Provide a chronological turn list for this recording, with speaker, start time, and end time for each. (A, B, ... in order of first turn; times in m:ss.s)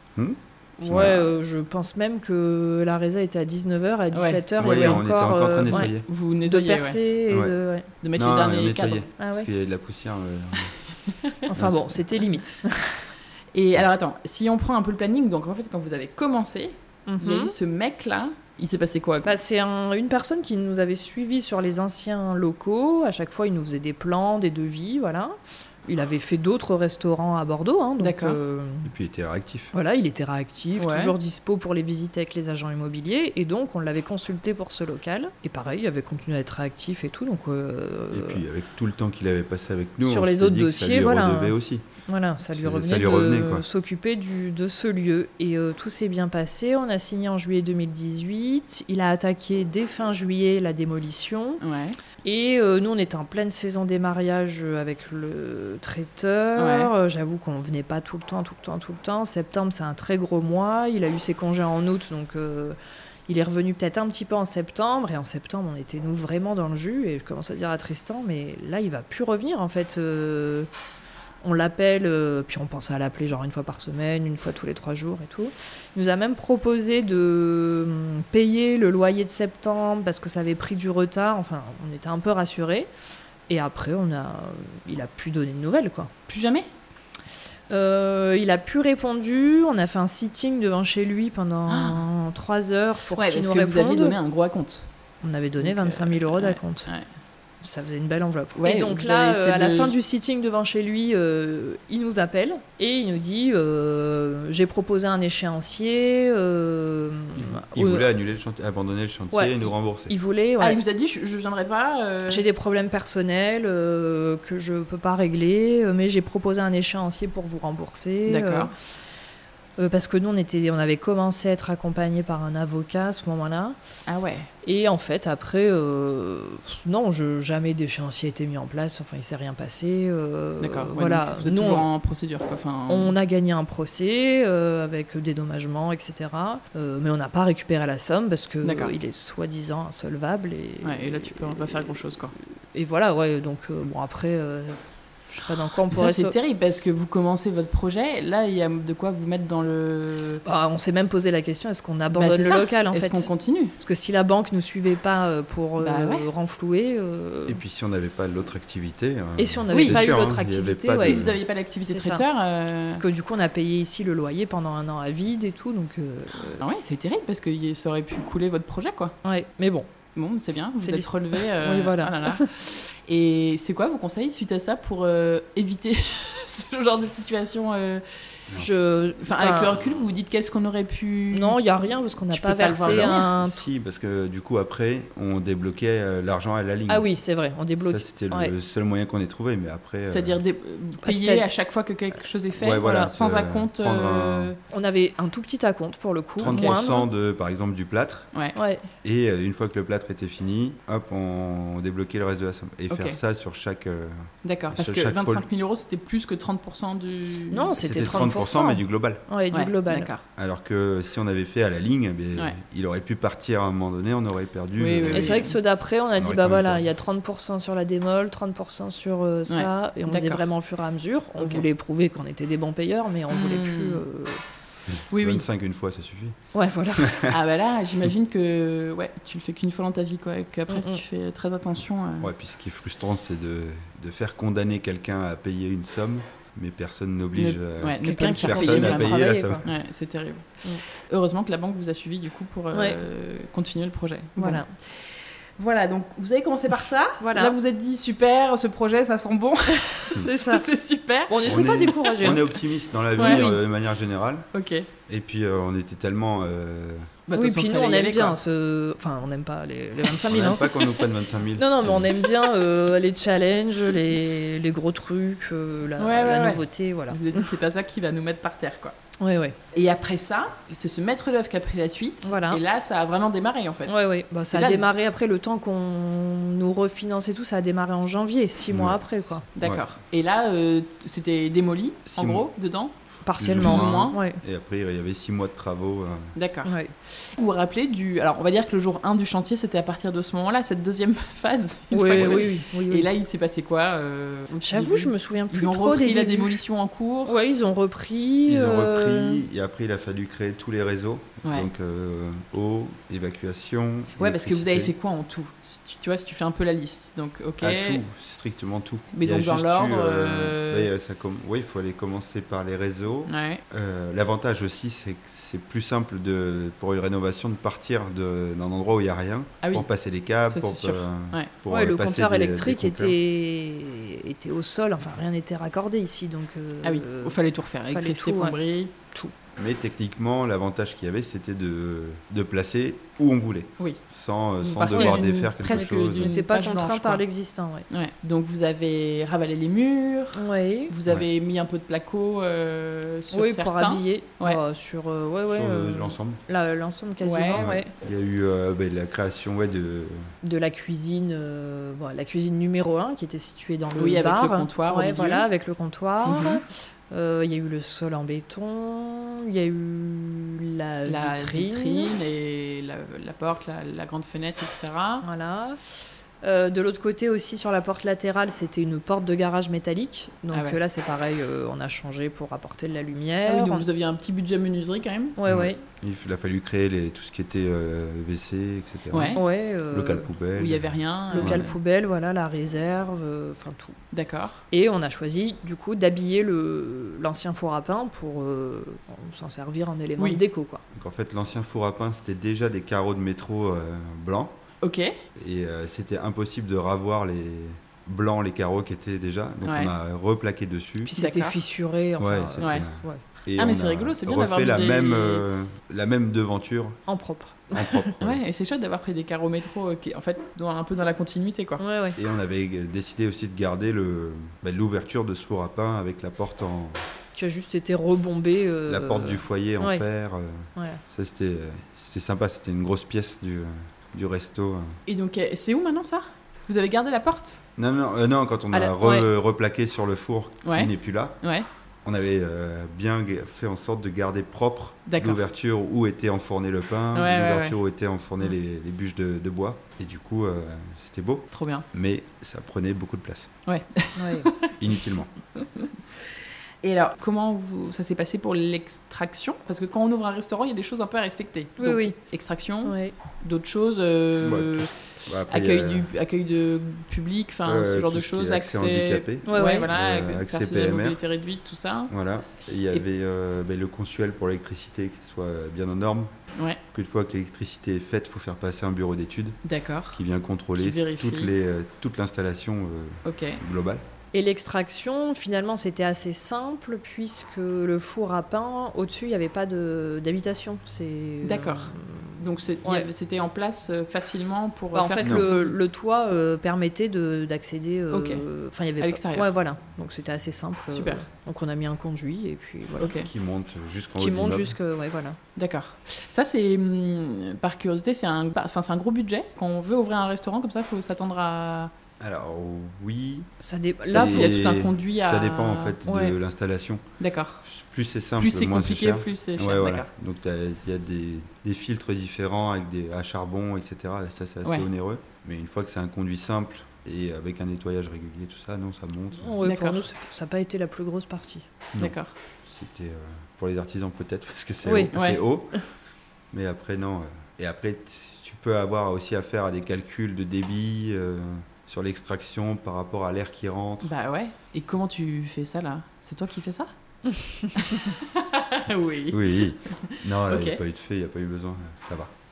0:00.2-0:01.3 A
0:00.8-0:05.9 B
0:04.1-0:05.0 C
0:04.6-0:06.0 A
0:05.7-0:07.0 C
0:06.4-0:07.9 B
0:07.3-0:07.5 A
0:08.0-0:09.1 C
0:08.1-0:10.7 A
0:09.2-0:09.5 B
0:11.0-0:11.4 C
0:11.4-0:13.1 B
0:11.5-0:11.9 A
0:13.5-0:19.3 C
0:17.1-0:17.5 B
0:19.2-0:25.3 B
0:25.8-0:28.9 B
0:28.0-0:28.4 C
0:28.8-0:29.7 A
0:29.7-0:38.4 B
0:30.8-0:31.1 C
0:38.1-0:41.8 A
0:40.0-0:41.5 B
0:42.1-0:51.6 B
0:42.5-0:43.6 A
0:51.6-0:52.0 C
0:52.2-1:10.7 B
0:56.6-0:56.9 C
1:11.4-1:22.9 B
1:23.5-1:26.1 B
1:26.3-1:26.7 C
1:27.7-1:34.2 B
1:31.7-1:32.0 C
1:33.1-1:34.9 C
1:35.2-1:36.9 B
1:35.6-1:37.0 C
1:37.6-1:48.1 B
1:38.6-1:39.9 C
1:47.4-1:50.1 A
1:49.3-1:50.8 B
1:50.6-1:52.4 C
1:52.3-1:58.7 B
1:58.3-1:58.7 C
1:59.8-2:03.8 B
2:04.1-2:04.5 C
2:04.6-2:11.9 B
2:10.6-2:13.1 C
2:12.9-2:21.9 B
2:18.6-2:18.9 C
2:20.8-2:22.3 C
2:22.7-2:26.3 B
2:25.9-2:30.4 C
2:30.4-2:37.6 B
2:32.1-2:33.7 C
2:35.8-2:36.3 C
2:37.5-2:41.4 A
2:39.4-2:41.3 B
2:39.7-2:40.0 C
2:40.9-2:43.0 C
2:41.8-2:42.2 B
2:42.9-2:46.6 B
2:46.6-2:49.2 C
2:49.2-2:49.9 B
2:50.2-2:58.0 C
2:50.8-2:52.5 B
2:58.6-2:59.8 B
2:59.2-3:01.6 C
3:01.3-3:03.6 B
3:02.3-3:03.3 C
3:02.8-3:07.0 A
3:06.9-3:08.5 B
3:07.8-3:10.4 A
3:10.0-3:14.6 C
3:11.0-3:11.4 B
3:12.6-3:14.5 A
3:14.7-3:17.1 B
3:16.4-3:18.3 A
3:16.4-3:16.8 C
3:18.5-3:18.8 B
3:19.0-3:25.4 A
3:22.9-3:23.2 C
3:24.4-3:27.7 C
3:27.5-3:30.1 B
3:27.8-3:29.2 A
3:29.5-3:30.2 C
3:30.4-3:35.4 A
3:34.8-3:35.6 C
3:35.1-3:44.4 B
3:36.2-3:36.8 A
3:39.5-3:40.4 C
3:41.4-3:41.6 C
3:43.3-3:44.0 C
3:45.1-3:45.4 C
3:45.1-3:46.4 A
3:46.5-3:47.2 B
3:47.0-3:47.3 A
3:47.3-3:52.3 C
3:50.7-3:51.0 B
3:52.2-3:59.6 A
3:57.3-4:12.5 C
3:58.0-3:59.7 B
4:02.7-4:03.0 B
4:04.4-4:04.7 B
4:07.2-4:07.6 B
4:10.1-4:10.6 B
4:11.3-4:12.5 B
4:11.4-4:14.5 A
4:13.2-4:13.5 C
4:13.2-4:13.6 B
4:14.5-4:14.9 C
4:15.1-4:17.1 A
4:17.3-4:18.4 C
4:17.3-4:21.0 B
4:20.3-4:22.1 A
4:21.6-4:27.5 B
4:26.0-4:29.0 C
4:29.2-4:29.6 B
4:29.7-4:34.0 C
4:32.2-4:32.6 B
4:33.9-4:39.4 B
4:34.5-4:34.9 C
4:38.7-4:39.8 A
4:39.6-4:42.9 C
4:42.0-4:42.5 A
4:43.2-4:44.4 B
4:43.4-4:46.3 A
4:43.6-4:44.2 C
4:46.3-4:57.4 C
4:46.6-4:46.9 B
4:51.9-4:53.1 B
4:54.6-4:56.6 B
4:57.2-4:59.4 B
4:58.5-5:04.9 A
5:01.4-5:01.7 C
5:04.2-5:08.0 C
5:07.6-5:23.2 A
5:09.1-5:10.9 C
5:13.3-5:13.6 C
5:19.6-5:19.9 C
5:20.4-5:21.5 C
5:21.7-5:28.6 B
5:26.8-5:28.9 C
5:29.6-5:36.3 A
5:34.6-5:37.2 C
5:34.9-5:37.8 B
5:37.9-5:44.6 C
5:40.4-5:40.9 B
5:43.3-5:47.9 B
5:45.5-5:46.4 A
5:47.2-5:47.6 C
5:47.5-5:50.3 A
5:50.4-6:02.1 B
5:54.0-5:55.5 C
5:56.2-5:56.6 C
6:01.0-6:05.2 C
6:05.2-6:13.8 B
6:10.5-6:10.8 C
6:13.4-6:15.4 C
6:15.4-6:15.8 B
6:15.4-6:19.4 A
6:19.1-6:19.4 C
6:19.3-6:20.3 B
6:19.9-6:21.6 A
6:20.5-6:21.8 C
6:21.3-6:24.0 B
6:24.1-6:24.6 C
6:24.7-6:30.8 B
6:30.9-6:34.6 A
6:34.8-6:35.1 C
6:35.4-6:41.1 A
6:39.6-6:39.9 C
6:41.0-6:43.2 B
6:41.2-6:41.5 C
6:42.2-6:47.0 A
6:42.6-6:42.8 C
6:43.6-6:45.4 C
6:47.1-6:48.1 B
6:47.7-6:48.4 A
6:48.2-6:51.8 C
6:51.8-6:52.2 B
6:52.2-6:57.0 A
6:57.3-7:00.0 B
6:58.9-7:05.0 A
7:00.8-7:01.0 B
7:05.0-7:07.6 C
7:07.8-7:11.4 A
7:08.7-7:09.3 B
7:10.6-7:11.6 C
7:12.0-7:23.5 A
7:15.1-7:15.4 C
7:17.1-7:17.8 C
7:21.5-7:21.8 C
7:23.6-7:24.8 C
7:24.2-7:24.5 B
7:24.8-7:25.3 A
7:25.6-7:25.9 C
7:26.8-7:34.9 C
7:31.8-7:32.2 B
7:32.8-7:33.1 B
7:34.4-7:36.1 A
7:35.5-7:42.1 C
7:37.6-7:41.2 A
7:39.4-7:39.9 B
7:42.1-7:46.3 A
7:46.5-7:46.8 C
7:46.9-7:49.6 A
7:49.6-7:50.2 C
7:50.1-7:54.0 A
7:50.8-7:51.5 C
7:53.2-7:53.6 C
7:54.3-8:03.1 B
8:01.4-8:05.8 C
8:04.9-8:13.2 B
8:05.2-8:05.5 A
8:08.1-8:08.4 C
8:09.0-8:09.4 C
8:10.9-8:11.2 C
8:13.0-8:13.3 C
8:13.2-8:14.7 A
8:14.2-8:15.4 B
8:15.6-8:21.9 C
8:22.2-8:23.5 A
8:23.6-8:24.6 B
8:24.1-8:27.0 A
8:24.1-8:26.0 C
8:26.0-8:26.4 B
8:27.2-8:27.6 C
8:27.6-8:39.6 A
8:28.4-8:30.1 C
8:39.4-8:41.7 B
8:39.6-8:40.0 C
8:41.9-8:45.8 A
8:42.0-8:42.3 C
8:44.8-8:45.1 B
8:45.1-8:45.4 C
8:46.5-8:54.1 A
8:54.0-8:56.9 C
8:57.4-8:57.7 B
8:57.7-9:00.8 C
8:59.3-9:02.3 A